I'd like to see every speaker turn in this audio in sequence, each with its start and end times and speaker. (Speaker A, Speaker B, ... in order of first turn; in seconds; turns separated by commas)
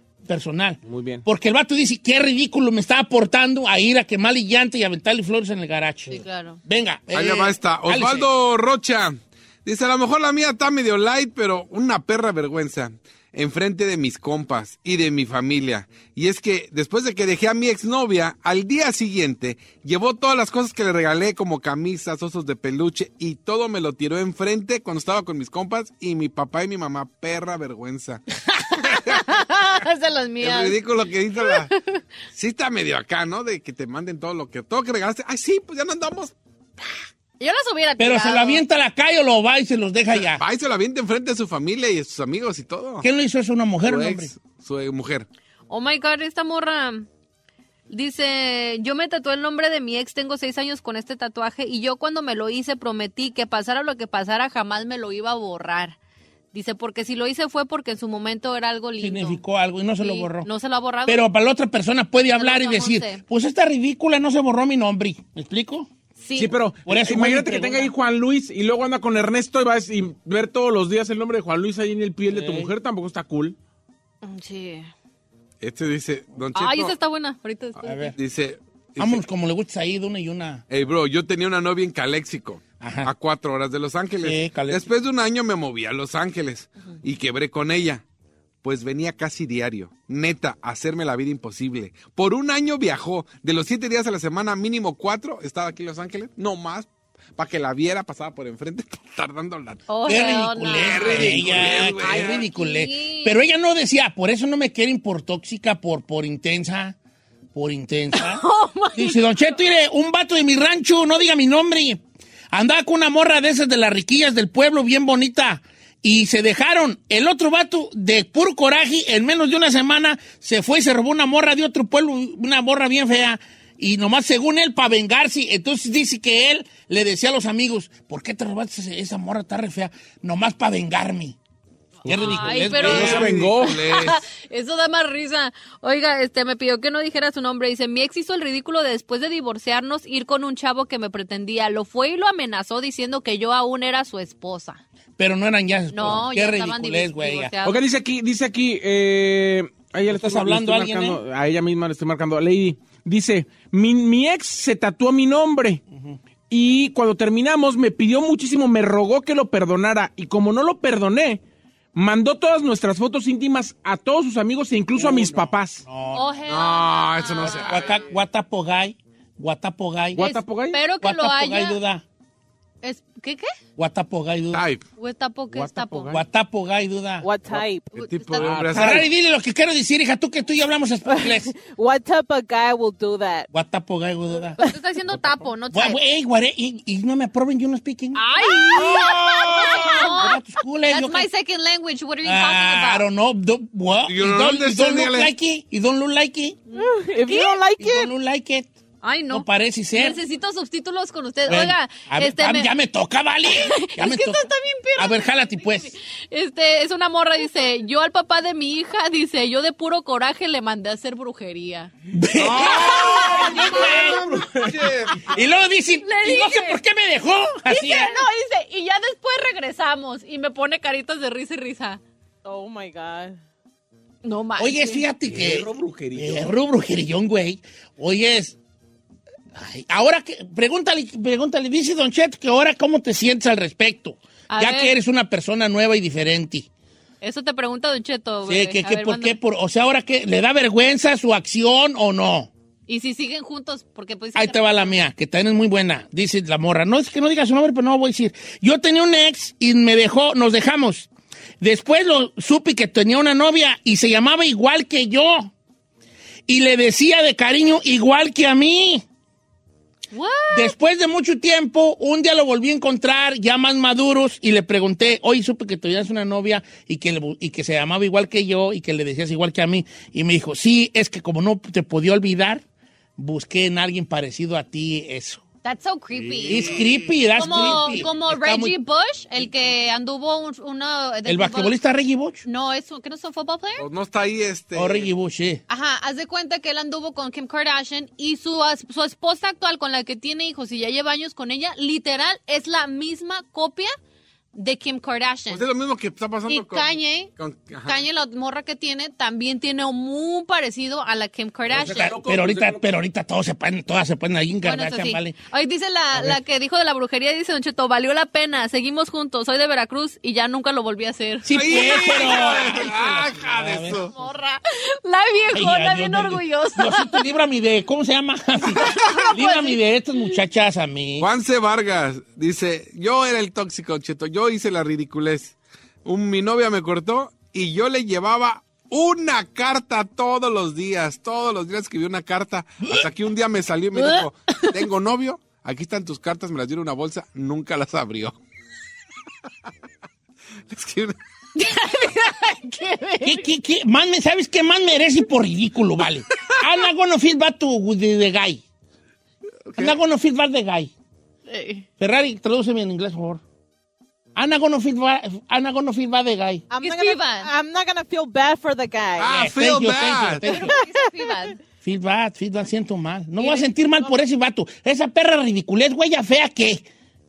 Speaker A: 0.3-8.3, Speaker B: 0.8-1.2, Speaker C: 6.1-6.6, Speaker D: 7.1-28.2, Speaker C: 28.5-30.8, Speaker D: 28.9-29.2, Speaker D: 30.4-31.7, Speaker C: 31.4-32.0, Speaker D: 32.3-36.3, Speaker C: 37.4-38.6, Speaker A: 38.0-40.4, Speaker D: 40.1-43.0, Speaker A: 43.0-44.3, Speaker D: 43.8-45.3, Speaker C: 45.7-47.0, Speaker C: 47.9-56.0, Speaker C: 56.5-59.4, Speaker A: 59.0-60.5, Speaker C: 60.0-61.2, Speaker A: 61.0-65.9, Speaker C: 62.3-63.2, Speaker C: 66.2-66.5, Speaker B: 66.3-73.5, Speaker A: 66.8-67.9, Speaker A: 72.3-72.7, Speaker C: 74.2-74.9, Speaker D: 75.6-76.9, Speaker C: 76.5-78.1, Speaker A: 77.8-78.1, Speaker D: 78.2-79.2, Speaker A: 79.0-80.6, Speaker D: 80.7-88.0, Speaker A: 82.8-83.1, Speaker A: 84.2-84.8, Speaker D: 88.6-102.5, Speaker C: 99.9-103.3, Speaker A: 100.0-106.9, Speaker A: 107.5-112.0, Speaker C: 108.1-109.5, Speaker A: 112.5-131.4, Speaker A: 132.0-133.4, Speaker B: 132.1-133.8, Speaker C: 132.2-144.8, Speaker D: 132.7-134.2, Speaker A: 145.2-147.5, Speaker C: 145.9-147.8, Speaker B: 147.6-155.8, Speaker A: 150.1-151.2, Speaker A: 155.9-156.2, Speaker B: 156.5-161.4, Speaker B: 161.9-165.8, Speaker A: 164.9-166.3, Speaker C: 166.1-168.0, Speaker D: 166.5-168.1, Speaker A: 167.4-170.2, Speaker B: 170.1-170.8, Speaker C: 170.2-171.8, Speaker A: 171.0-172.0, Speaker C: 172.8-173.5, Speaker A: 173.8-174.6, Speaker D: 174.5-174.8, Speaker C: 175.0-176.1, Speaker B: 175.5-176.2, Speaker A: 176.1-177.2, Speaker E: 177.2-177.9, Speaker D: 177.5-179.1, Speaker C: 177.9-178.5, Speaker B: 178.3-179.0, Speaker A: 178.7-181.5, Speaker E: 181.1-183.5, Speaker A: 183.5-184.6, Speaker C: 184.6-186.0, Speaker A: 185.7-191.3, Speaker C: 188.1-193.1, Speaker D: 188.7-190.1, Speaker A: 192.2-196.6, Speaker D: 194.1-195.3, Speaker C: 196.7-197.6, Speaker E: 196.8-198.1, Speaker A: 197.8-198.7, Speaker C: 199.0-202.7, Speaker A: 199.3-200.2, Speaker A: 201.5-204.4, Speaker C: 203.5-211.9, Speaker A: 205.0-205.9, Speaker A: 212.1-214.2, Speaker D: 212.4-215.3, Speaker C: 212.7-214.2, Speaker B: 213.8-214.8, Speaker A: 215.3-218.2, Speaker C: 216.0-216.8, Speaker C: 217.7-222.0, Speaker E: 222.4-223.4, Speaker C: 224.2-225.0, Speaker A: 224.6-228.6, Speaker B: 225.2-226.5, Speaker A: 229.6-236.7, Speaker C: 234.5-234.9, Speaker C: 237.2-239.4, Speaker A: 238.5-242.5, Speaker C: 242.9-244.9, Speaker A: 244.3-251.1, Speaker A: 251.6-255.5, Speaker A: 256.5-259.0, Speaker C: 260.1-260.7, Speaker A: 260.5-272.6, Speaker A: 273.2-275.4, Speaker C: 275.6-276.8, Speaker D: 276.3-277.7, Speaker A: 276.4-278.7, Speaker C: 277.3-281.8, Speaker A: 281.2-282.4, Speaker C: 282.4-283.8, Speaker D: 283.8-285.1, Speaker A: 284.7-285.6, Speaker C: 285.7-293.9, Speaker C: 294.5-295.6, Speaker D: 295.5-298.0, Speaker C: 296.5-297.3, Speaker C: 297.8-302.1, Speaker B: 301.7-302.8, Speaker A: 301.9-305.4, Speaker C: 304.6-312.7, Speaker A: 311.4-314.1, Speaker D: 311.5-314.1, Speaker C: 314.1-317.2, Speaker A: 315.5-321.3, Speaker C: 318.8-320.2, Speaker D: 321.2-338.4, Speaker C: 333.9-334.6, Speaker D: 340.7-341.1, Speaker C: 341.6-343.5, Speaker A: 343.2-348.6, Speaker D: 349.7-349.9, Speaker A: 349.8-350.9, Speaker C: 351.5-351.9, Speaker A: 352.0-353.4, Speaker A: 354.4-356.6, Speaker E: 356.7-359.4, Speaker C: 356.8-357.5, Speaker D: 359.2-360.4, Speaker A: 359.3-360.7, Speaker C: 360.4-361.6, Speaker E: 360.6-361.4, Speaker A: 361.8-366.8, Speaker E: 363.4-364.1